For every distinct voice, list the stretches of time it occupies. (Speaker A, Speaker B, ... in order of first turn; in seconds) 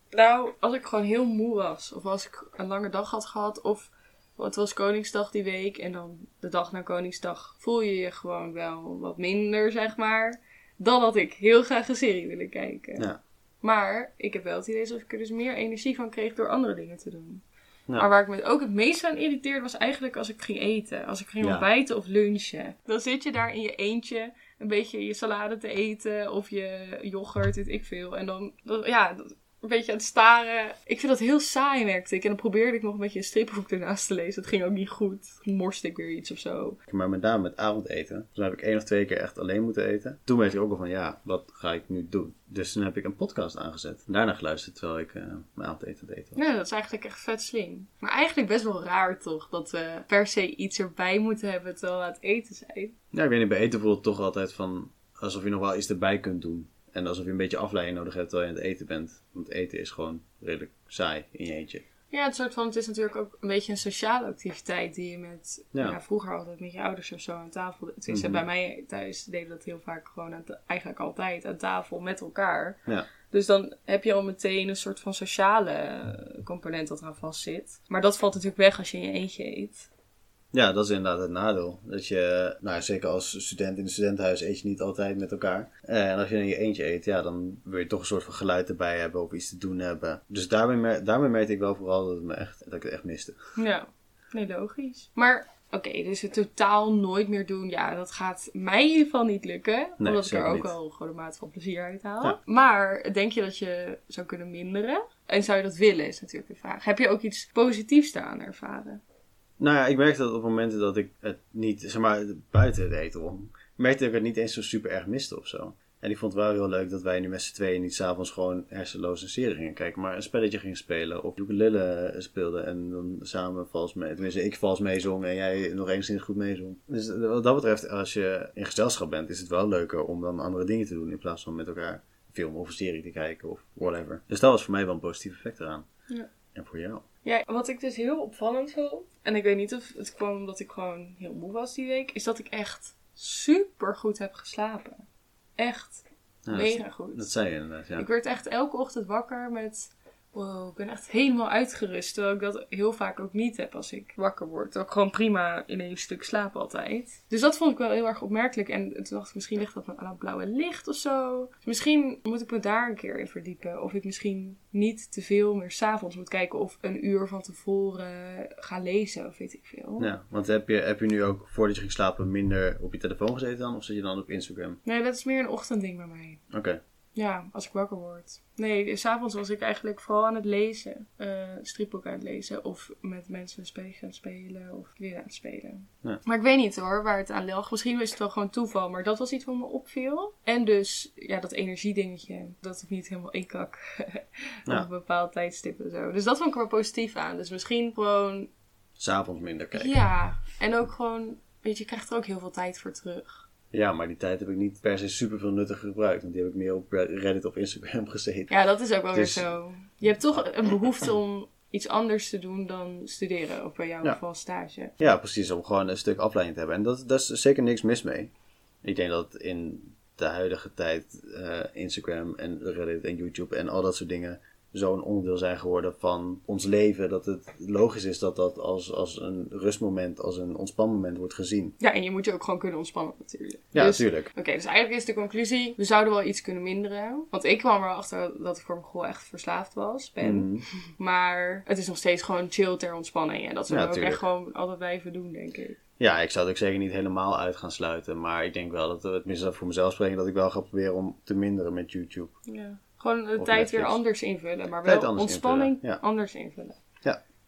Speaker A: 0.1-13.1, 13.6-17.4, 17.9-36.8, 46.4-52.9, 62.1-72.8, 73.3-79.9, 93.5-109.0, 137.2-145.0, 145.6-147.3, 148.0-170.1, 174.8-176.4, 177.2-198.5, 199.8-203.4, 208.5-214.9, 231.8-245.8, 252.5-256.8
Speaker B: 21.4-21.7, 36.9-46.4, 53.1-61.8, 68.1-68.4, 80.5-93.3, 100.0-100.7, 109.6-135.8, 136.5-137.0, 146.4-148.1, 170.0-174.8, 176.5-176.8, 199.0-200.0, 203.7-208.5, 209.1-209.5, 215.0-218.3, 218.8-231.7, 233.7-234.3, 240.2-240.6, 243.7-244.2, 246.0-252.3, 253.4-254.0, 254.8-256.0